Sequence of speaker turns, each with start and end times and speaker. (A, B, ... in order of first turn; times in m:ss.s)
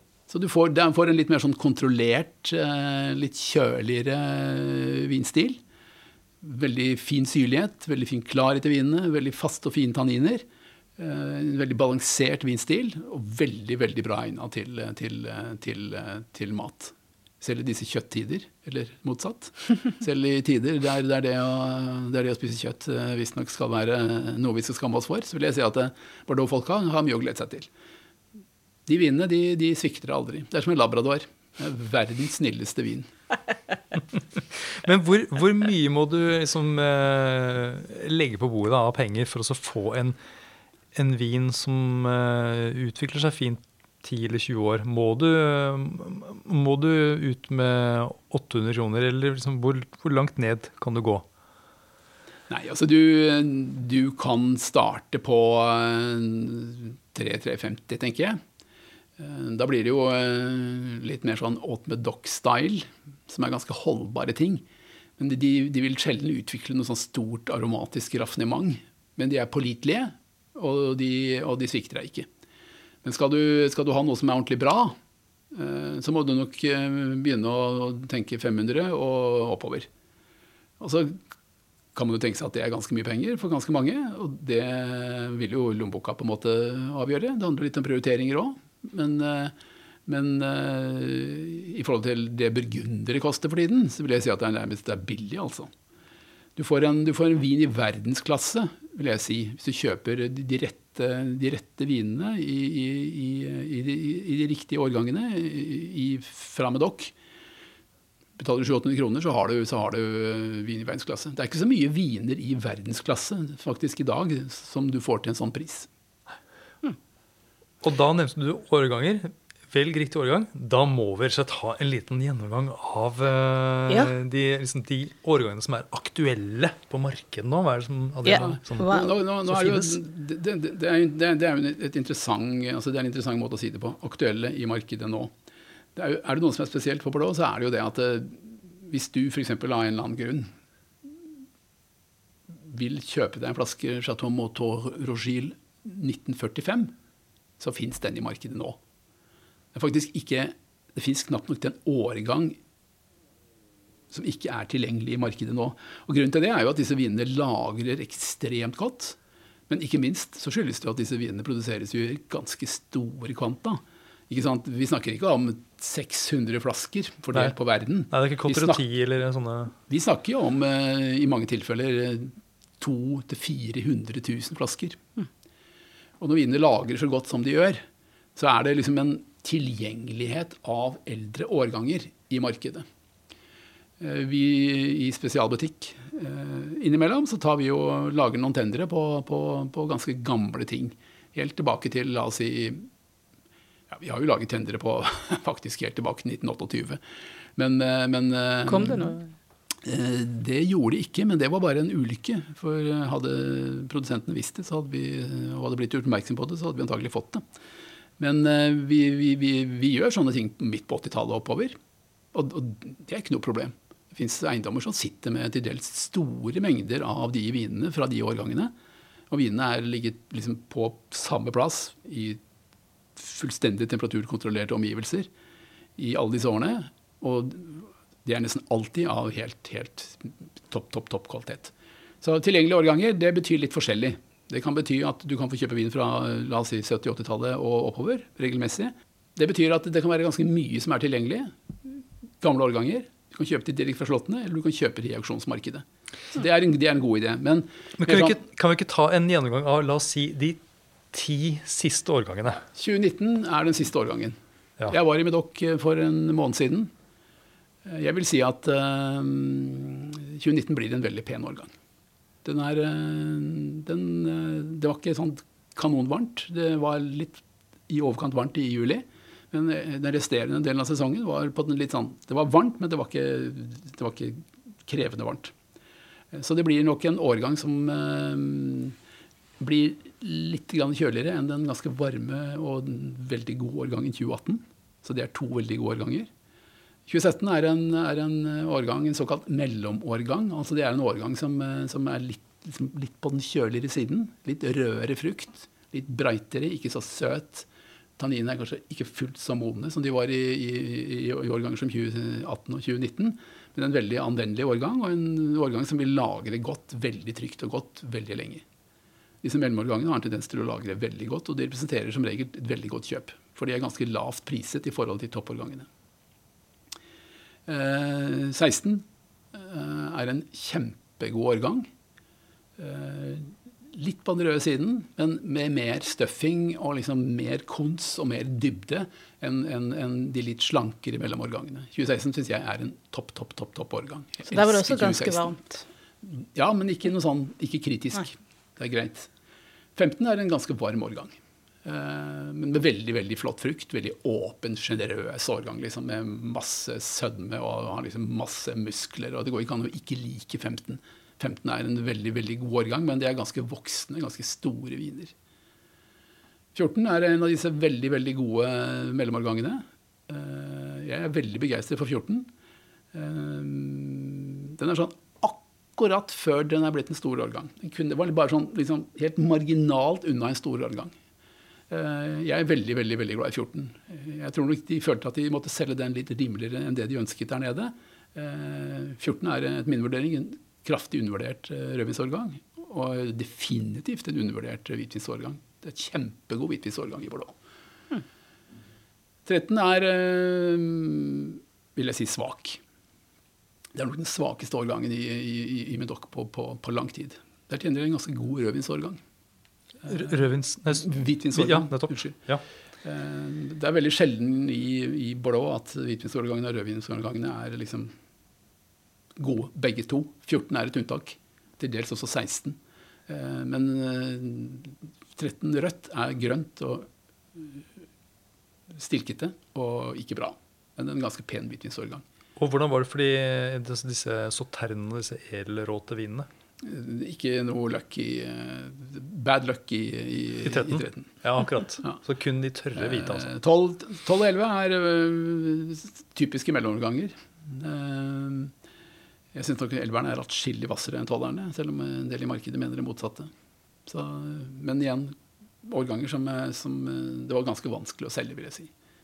0:00.3-0:05.6 A
0:06.4-0:10.4 A
0:11.0-0:27.7 A
0:28.8-0:33.1 A
0:34.8-0:40.2 B
0:40.9-0:51.2 B
0:52.5-0:58.4 A
0:59.2-1:04.6 A
1:05.2-1:12.3 A
1:13.0-1:15.0 A
1:15.5-1:19.9 A
1:20.8-1:21.2 A
1:21.9-1:29.5 A
1:30.0-1:35.7 A
1:36.6-1:47.1 A
1:48.4-1:55.9 A
1:57.8-2:10.0 B
2:03.9-2:04.1 C
2:08.2-2:09.1 C
2:08.3-2:15.3 A
2:16.0-2:20.5 A
2:22.5-2:26.9 A
2:27.6-2:28.8 A
2:29.7-2:32.6 A
2:34.1-2:39.2 A
2:39.7-2:48.8 A
2:48.1-2:49.7 B
2:49.8-2:55.0 A
2:56.2-2:57.8 A
2:58.4-3:02.8 A
3:04.0-3:12.9 A
3:13.9-3:17.0 A
3:17.6-3:19.1 A
3:18.6-3:19.3 C
3:19.8-3:27.4 A
3:28.2-3:31.8 A
3:32.3-3:38.7 A
3:39.3-3:42.4 A
3:43.2-3:45.3 A
3:46.0-4:08.4 A
4:08.0-4:10.6 B
4:11.1-4:12.6 B
4:12.7-4:16.9 A
4:17.8-4:21.7 A
4:22.4-4:35.5 A
4:36.3-4:39.0 A
4:39.6-4:46.3 A
4:47.1-4:57.7 A
4:58.2-5:08.6 A
5:09.4-5:15.9 A
5:17.7-5:21.9 A
5:22.8-5:35.4 A
5:34.5-5:35.8 C
5:36.2-5:39.3 A
5:40.0-5:55.3 A
5:56.7-6:02.5 A
6:03.1-6:11.1 A
6:11.9-6:27.5 A
6:29.4-6:32.8 A
6:33.9-6:39.2 A
6:40.0-6:40.4 A
6:40.0-6:42.6 B
6:40.9-6:42.4 A
6:43.0-6:48.1 A
6:49.3-6:57.8 A
6:58.9-7:02.2 A
7:02.6-7:06.5 B
7:06.8-7:11.4 A
7:10.6-7:13.5 B
7:12.9-7:18.7 A
7:19.5-7:23.5 A
7:24.0-7:28.9 A